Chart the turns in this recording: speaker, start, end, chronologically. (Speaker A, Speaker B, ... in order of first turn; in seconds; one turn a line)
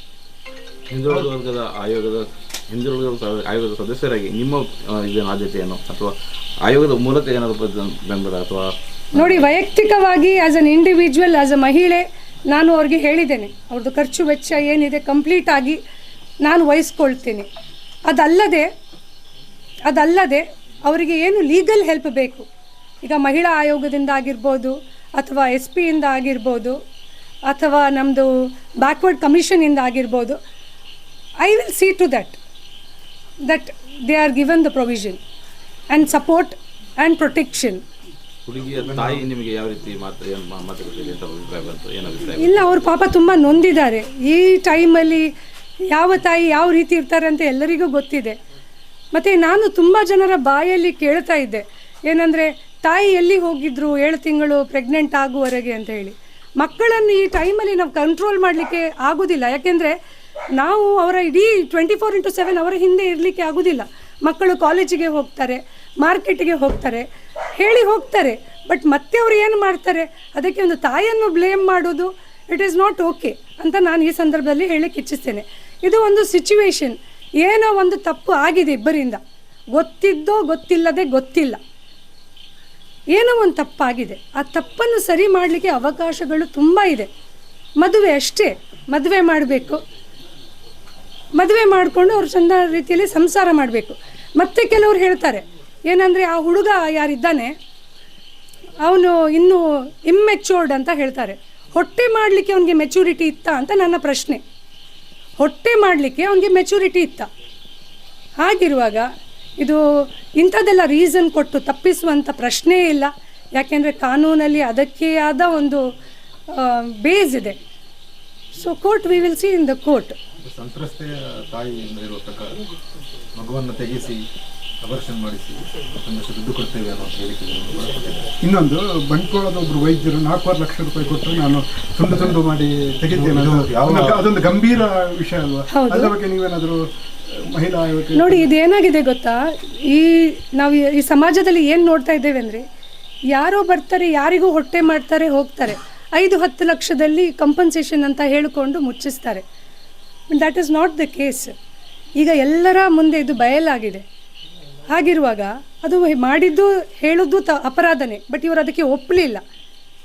Speaker A: 0.9-9.4
Speaker B: 9.2-15.8
Speaker B: 16.4-17.5
Speaker B: 18.1-18.7
Speaker B: 19.9-22.5
Speaker B: 23.0-26.8
Speaker B: 27.5-30.4
Speaker B: 31.4-32.4
Speaker B: 33.5-35.2
Speaker B: 35.9-37.8
Speaker A: 38.5-42.5
Speaker C: 38.7-39.2
Speaker B: 42.4-45.3
Speaker B: 45.9-48.4
Speaker B: 49.1-60.0
Speaker B: 60.6-79.2
Speaker B: 79.8-81.6
Speaker B: 83.1-87.1
Speaker B: 87.8-89.8
Speaker B: 91.4-97.5
Speaker B: 98.8-104.4
Speaker B: 105.4-107.3
Speaker B: 108.4-109.1
Speaker B: 110.4-115.8
Speaker B: 116.5-117.6
Speaker B: 118.5-120.2
Speaker C: 120.4-122.6
Speaker C: 123.4-124.2
Speaker C: 124.8-128.3
Speaker D: 128.4-138.4
Speaker C: 132.1-132.4
Speaker C: 133.1-134.3
Speaker B: 135.7-136.1
Speaker B: 138.2-142.6
Speaker B: 143.3-149.4
Speaker B: 150.3-151.5
Speaker B: 152.2-154.0
Speaker B: 154.9-159.4